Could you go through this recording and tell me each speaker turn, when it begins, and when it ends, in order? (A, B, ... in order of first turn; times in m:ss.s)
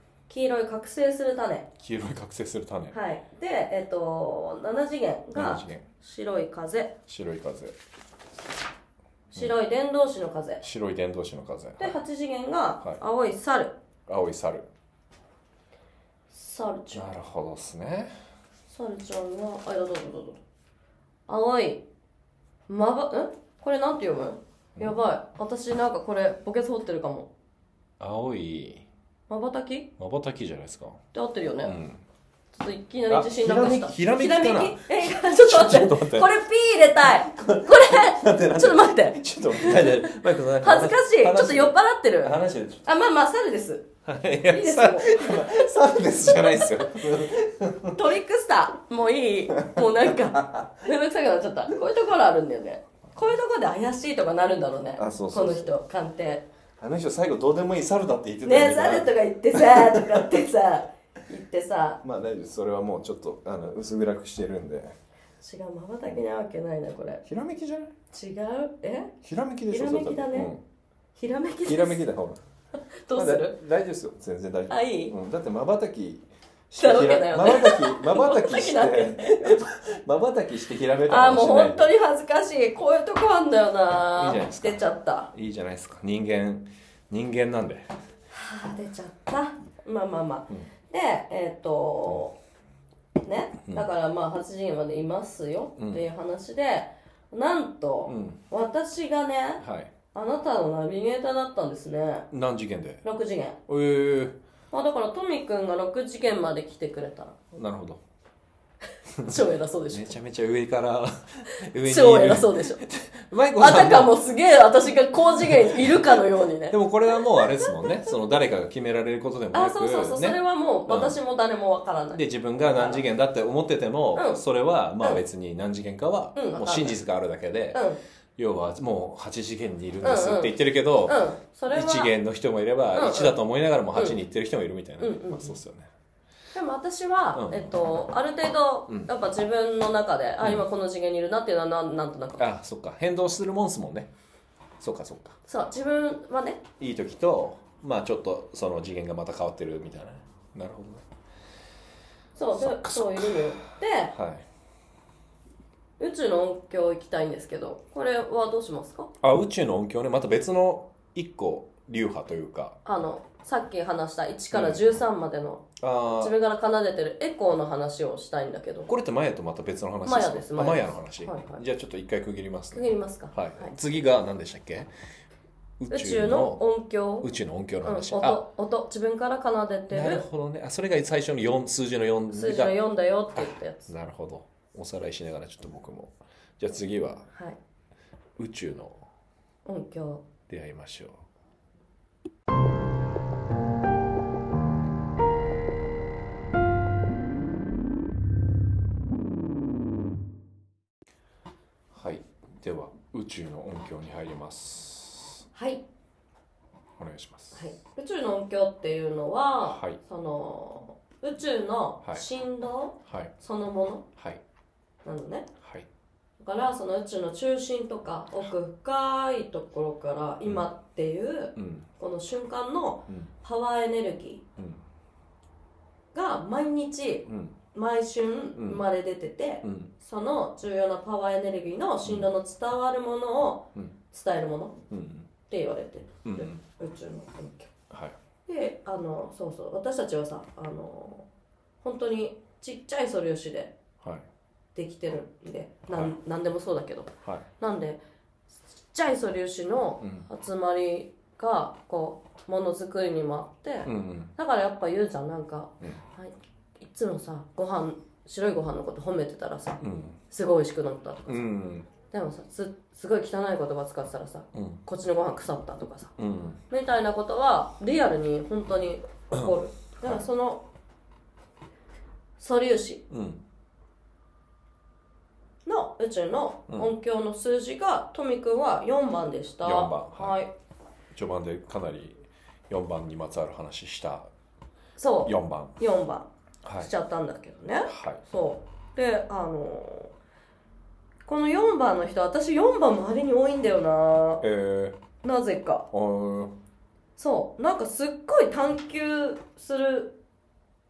0:00.3-0:01.7 A
0:01.8-0:03.0 B
0:02.9-0:06.9 A
0:05.3-0:05.8 B
0:07.1-0:07.7 B
0:09.3-0:10.6 A
0:10.6-0:12.0 B
0:11.8-0:13.7 A
0:14.1-0:14.7 B
0:16.3-0:17.1 A
0:16.9-0:18.1 B
0:18.7-0:20.4 A
0:21.3-0:21.8 A
0:22.7-0:27.3 A
0:28.0-0:28.9 B
0:29.3-0:29.9 A
0:30.0-0:31.0 B
0:31.1-0:31.8 A
0:31.6-0:32.0 B
0:32.5-0:43.9 A
0:33.1-0:36.3 B
0:37.1-0:42.8 B
0:44.0-0:48.0 B
0:44.5-0:47.0 A
0:47.9-0:56.4 A
0:49.6-0:50.8 B
0:55.0-0:55.7 B
0:56.8-1:00.3 B
0:58.4-1:02.0 A
1:02.0-1:05.0 B
1:05.4-1:07.2 A
1:07.2-1:07.9 B
1:08.1-1:09.1 A
1:09.2-1:10.6 B
1:09.7-1:10.5 A
1:11.2-1:12.0 A
1:11.6-1:12.4 B
1:12.9-1:13.6 A
1:13.1-1:21.9 B
1:14.7-1:15.1 A
1:16.8-1:19.6 A
1:21.1-1:25.3 A
1:24.1-1:27.9 B
1:28.3-1:32.4 A
1:33.2-1:42.3 A
1:35.8-1:36.0 B
1:38.1-1:38.4 B
1:39.6-1:39.9 B
1:42.3-1:43.0 B
1:43.0-1:43.6 A
1:43.7-1:44.4 B
1:44.7-1:47.4 A
1:47.5-1:48.0 B
1:49.1-1:54.2 B
1:49.2-1:50.2 A
1:51.8-1:52.8 A
1:53.6-1:58.1 A
1:55.2-2:01.2 B
1:59.5-2:03.0 A
2:02.1-2:07.8 B
2:04.1-2:04.4 A
2:06.3-2:07.0 A
2:07.7-2:08.0 A
2:08.4-2:15.9 B
2:10.0-2:12.1 A
2:12.9-2:13.3 A
2:15.0-2:15.6 A
2:16.5-2:22.4 A
2:17.3-2:17.7 B
2:20.4-2:20.6 B
2:22.4-2:24.1 B
2:24.8-2:25.4 B
2:25.5-2:26.6 A
2:26.8-2:31.0 B
2:32.4-2:34.1 A
2:32.5-2:33.6 B
2:34.1-2:34.4 B
2:36.0-2:39.1 A
2:39.2-2:42.8 B
2:42.8-2:48.9 A
2:44.5-2:44.8 B
2:45.8-2:46.4 B
2:48.9-2:54.9 B
2:50.0-2:51.6 A
2:52.7-2:53.7 A
2:55.8-2:56.6 B
2:55.9-2:57.3 A
2:57.2-2:58.4 B
2:57.8-3:00.3 A
2:59.9-3:02.8 B
3:02.3-3:03.9 A
3:03.4-3:07.3 B
3:08.4-3:09.0 B
3:09.6-3:10.2 A
3:10.5-3:11.2 B
3:21.9-3:25.4 B
3:25.5-3:25.8 A
3:27.0-3:27.7 B
3:27.5-3:34.0 A
3:29.6-3:30.0 B
3:33.1-3:33.3 B
3:35.0-3:35.5 A
3:35.6-3:35.9 B
3:36.4-3:44.4 A
3:41.6-3:41.9 B
3:44.6-3:44.8 B
3:46.1-3:54.8 A
3:47.3-3:47.6 B
3:48.6-3:48.8 B
3:49.6-3:49.9 B
3:54.9-3:55.3 B
3:55.5-3:57.7 A
3:56.2-3:56.6 B
3:57.9-3:58.2 B
3:58.5-4:01.2 A
4:01.8-4:03.7 A
4:04.0-4:04.2 B
4:04.7-4:08.0 A
4:05.9-4:06.2 B
4:08.7-4:21.5 A
4:10.0-4:10.3 B
4:13.8-4:14.3 B
4:19.8-4:20.2 B
4:21.3-4:21.9 B
4:22.1-4:26.1 A
4:24.5-4:24.8 B
4:26.2-4:26.6 B
4:26.7-4:30.6 A
4:29.3-4:30.2 B
4:32.4-4:33.0 A
4:33.1-4:33.4 B
4:35.6-4:40.5 A
4:39.6-4:40.4 B
4:41.1-4:44.3 B
4:45.0-4:50.1 A
4:45.2-4:45.8 B
4:46.6-4:46.9 B
4:47.9-4:48.2 B
4:51.2-4:54.4 A
4:54.4-4:55.0 B
4:55.2-4:55.9 A
4:55.9-4:56.5 B
4:57.2-5:00.1 A